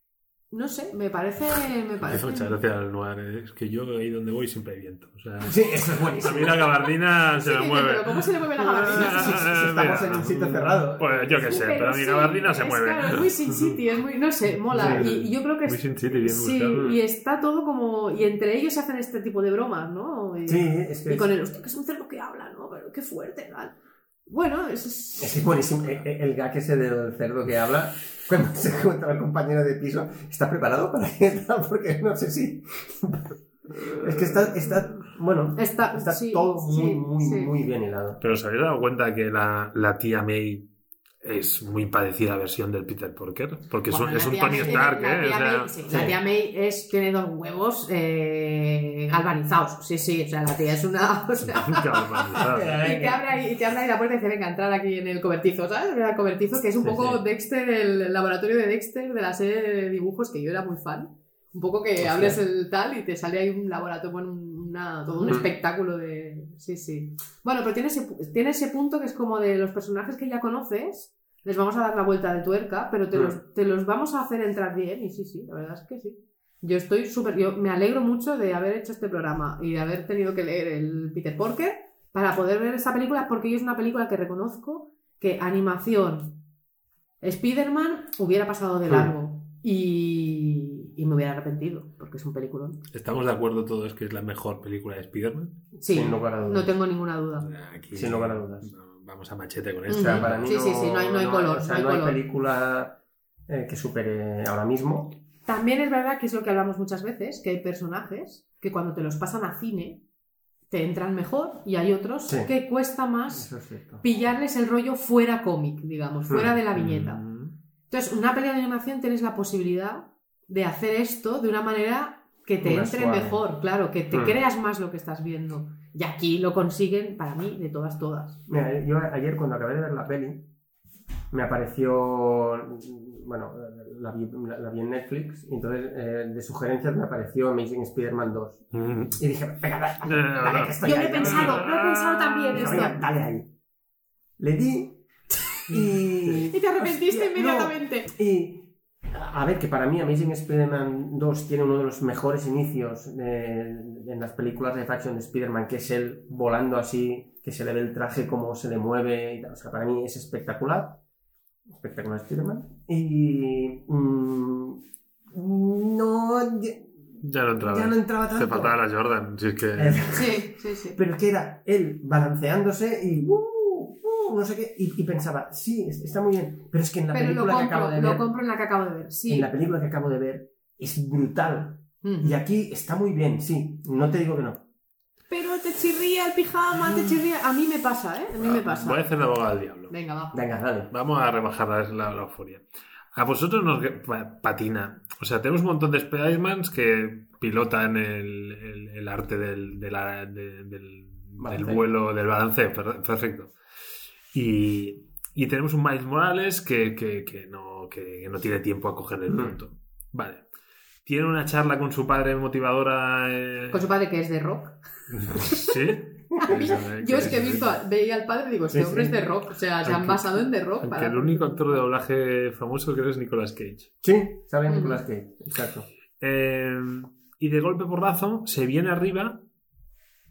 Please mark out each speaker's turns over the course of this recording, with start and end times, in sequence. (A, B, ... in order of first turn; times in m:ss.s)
0:00.5-0:02.6 A
0:02.0-0:13.2 B
0:05.4-0:06.7 C
0:07.4-0:09.5 A
0:08.8-0:11.8 C
0:11.4-0:23.8 A
0:14.7-0:16.9 B
0:14.7-0:15.2 C
0:16.7-0:17.0 C
0:20.5-0:21.3 C
0:24.3-0:25.6 A
0:25.2-0:33.4 C
0:34.0-0:38.2 C
0:34.2-0:34.8 B
0:35.6-0:37.5 A
0:38.2-0:40.7 B
0:41.2-0:45.7 B
0:43.9-1:26.4 A
0:44.5-0:44.9 C
0:45.9-0:46.2 C
0:51.5-0:52.9 B
0:52.4-0:53.2 C
0:56.8-0:57.2 C
1:02.0-1:02.4 C
1:05.2-1:05.5 C
1:27.2-1:32.8 A
1:32.9-1:35.7 B
1:35.8-1:37.5 A
1:35.9-1:36.7 C
1:37.4-1:40.5 B
1:37.9-1:38.7 C
1:39.9-1:42.2 A
1:39.9-1:45.2 C
1:45.5-1:50.0 A
1:50.7-1:53.5 A
1:53.3-1:54.0 C
1:54.0-1:57.2 A
1:56.7-1:57.5 B
1:57.9-2:08.4 A
2:02.6-2:03.4 C
2:04.1-2:04.4 C
2:08.5-2:10.5 C
2:11.3-2:18.6 C
2:18.7-2:19.2 B
2:19.2-2:21.7 C
2:20.1-2:22.8 B
2:20.8-2:23.0 A
2:22.5-2:23.5 C
2:24.4-2:25.0 C
2:25.7-2:41.0 C
2:25.7-2:26.4 B
2:26.5-2:28.1 A
2:41.7-2:46.9 C
2:47.2-2:50.0 B
2:47.6-2:48.8 C
2:49.8-2:58.3 C
2:50.1-2:51.0 A
2:57.1-2:59.5 A
2:59.3-3:04.6 C
3:02.0-3:02.4 A
3:05.3-3:09.0 A
3:08.4-3:09.9 B
3:09.9-3:10.4 A
3:10.3-3:10.9 C
3:10.9-3:12.6 B
3:13.2-3:23.5 B
3:21.4-3:21.8 C
3:24.3-3:30.4 B
3:29.3-3:29.6 C
3:31.0-3:33.8 B
3:33.7-3:35.7 A
3:35.1-3:37.8 B
3:36.4-3:41.8 A
3:38.7-3:39.2 C
3:39.8-3:43.9 B
3:44.0-3:45.9 C
3:44.7-3:45.0 A
3:46.2-3:49.4 B